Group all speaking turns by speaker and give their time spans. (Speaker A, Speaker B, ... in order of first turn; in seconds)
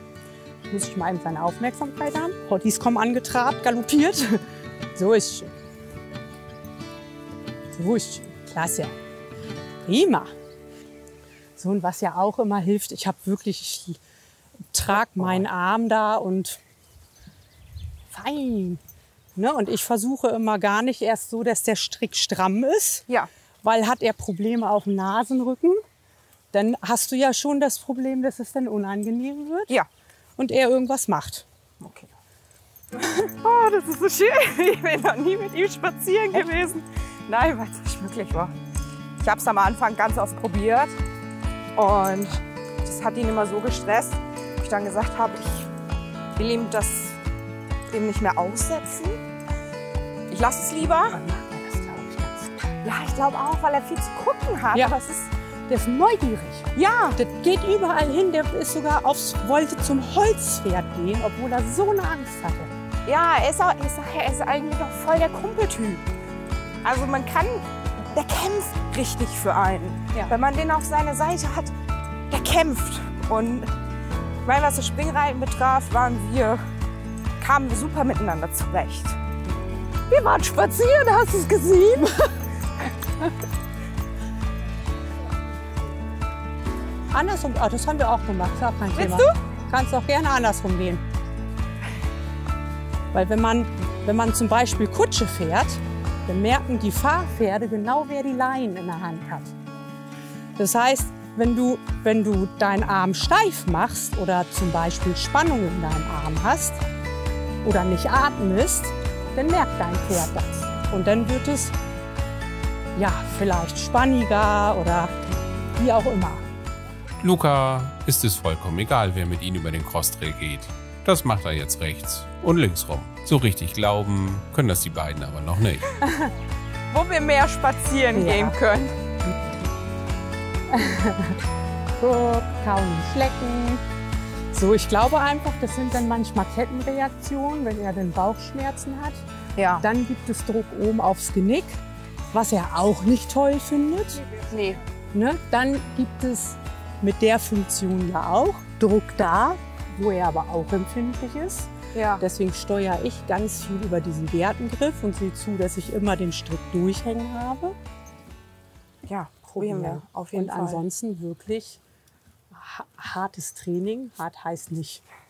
Speaker A: 0.7-5.5, 7.7-8.9, 9.8-10.3, 11.6-14.0, 14.7-16.6, 18.1-18.8, 19.4-23.1, 23.6-25.8, 26.5-29.7, 30.4-31.5, 50.8-52.8, 55.7-62.7, 87.1-91.0, 93.1-99.5, 100.6-106.8, 107.6-111.8, 113.0-116.5, 126.0-126.3, 128.2-128.6, 130.7-131.4, 132.0-133.8, 134.5-139.3, 139.8-141.8, 142.3-144.2, 145.1-157.8, 159.6-161.8, 162.5-165.0
Speaker B: 31.8-32.1, 33.0-38.5, 39.2-41.0, 41.8-45.7, 46.4-47.2, 47.9-49.2, 50.3-51.2, 52.8-55.3, 56.8-57.2, 63.1-66.1, 66.8-71.7, 72.3-73.7, 74.5-76.6, 77.4-79.2, 80.1-82.1, 89.0-89.4, 126.9-128.9, 139.6-139.9, 144.4-144.8, 151.9-152.2, 159.1-160.8
Speaker C: 117.2-125.9